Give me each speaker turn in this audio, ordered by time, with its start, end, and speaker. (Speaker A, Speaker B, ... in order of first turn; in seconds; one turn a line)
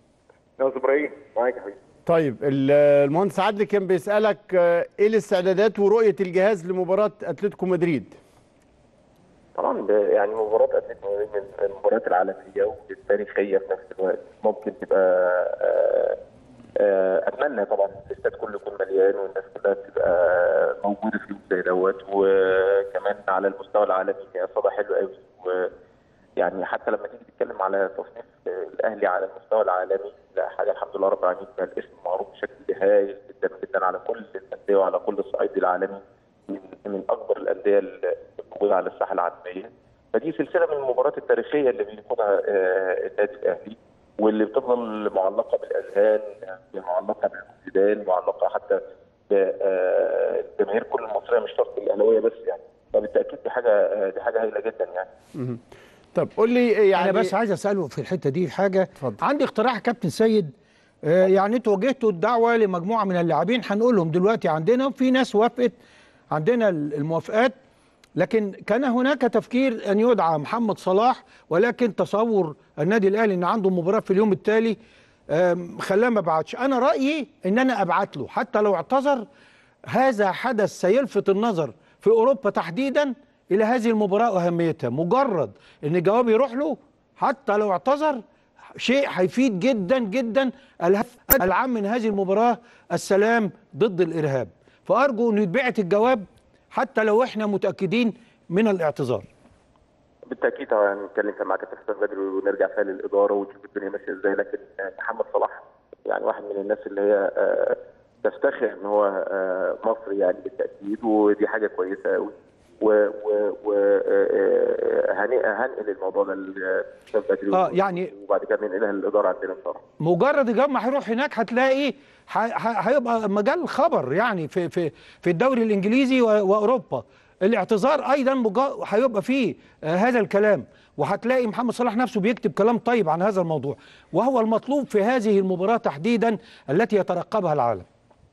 Speaker A: 0.6-1.8
Speaker B: 2.0-8.2
Speaker A: 9.6-16.2
Speaker A: 16.8-25.7
Speaker A: 26.4-55.1
Speaker B: 56.1-57.3
Speaker C: 57.0-60.5
Speaker C: 61.0-65.7
Speaker C: 66.3-67.5
Speaker C: 68.2-74.8
Speaker C: 75.3-79.2
Speaker C: 79.9-88.2
Speaker C: 88.8-99.3
Speaker A: 100.3-119.8
Speaker C: 117.5-118.1
Speaker C: 120.0-137.8